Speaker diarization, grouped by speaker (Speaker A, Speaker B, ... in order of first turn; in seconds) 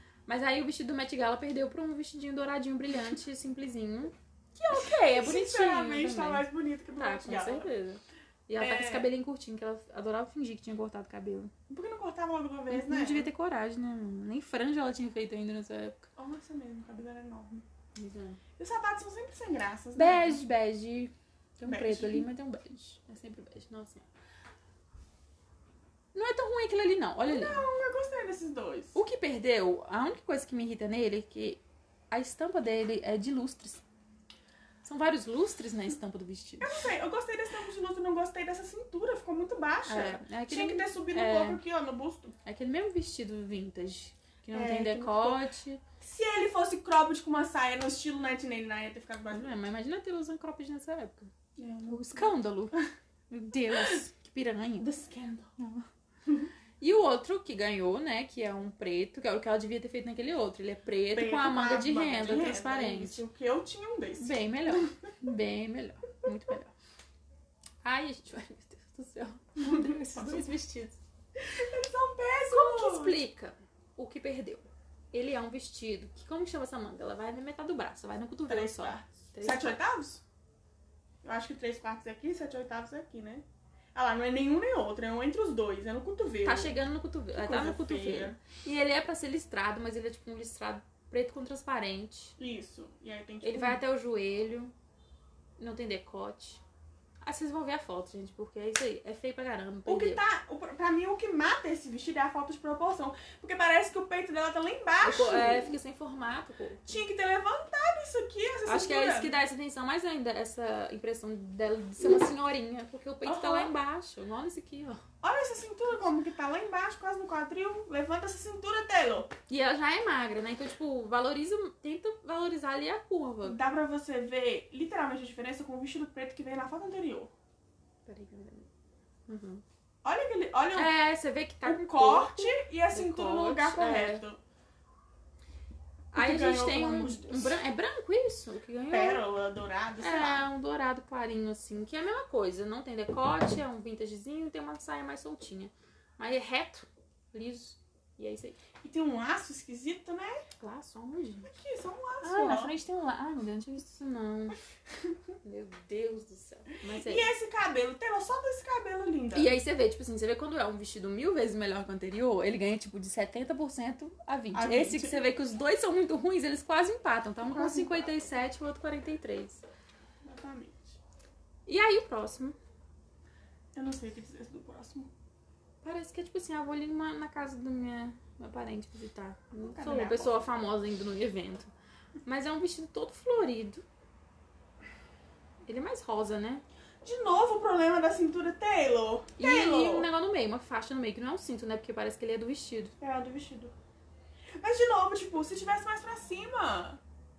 Speaker A: 0.3-11.5, 12.7-16.1, 17.9-18.4, 20.0-24.1, 26.1-27.6, 28.9-33.8, 34.8-36.9, 39.9-41.6, 42.5-45.8, 49.3-51.3, 51.9-52.8, 53.3-54.9, 55.6-55.9, 56.8-63.2, 64.2-66.7, 67.8-71.0, 72.5-79.8, 86.5-92.3, 93.4-94.7, 95.6-96.6, 97.2-100.2, 105.0-107.0, 108.7-115.0, 119.5-123.6, 128.1-128.7, 129.3-129.6, 130.8-134.2, 136.1-139.2, 140.0-148.6, 150.6-151.5, 152.2-154.6, 155.4-157.3, 159.3-169.6, 171.7-172.6, 175.8-181.7, 182.2-183.8, 185.7-186.6, 189.4-192.9
Speaker B: 4.7-7.7, 8.6-9.1, 11.7-13.3, 16.2-17.6, 18.6-20.4, 21.7-22.3, 27.2-29.0, 36.6-42.4, 44.5-45.4, 46.0-49.6, 51.6-52.8, 53.7-54.0, 54.8-55.5, 61.1-65.1, 69.6-70.5, 71.4-73.2, 78.5-80.2, 81.2-86.8, 87.3-88.4, 92.4-93.8, 99.9-105.8, 106.9-109.4, 113.2-113.7, 115.2-119.3, 123.4-127.3, 130.0-130.9, 131.6-134.4, 136.1-137.6, 138.9-140.5, 148.8-150.4, 151.4-152.7, 156.9-159.5, 164.5-165.2, 167.4-168.1, 170.2-171.0, 173.7-175.1, 179.6-180.5, 187.0-190.1, 193.0-193.7, 194.6-197.0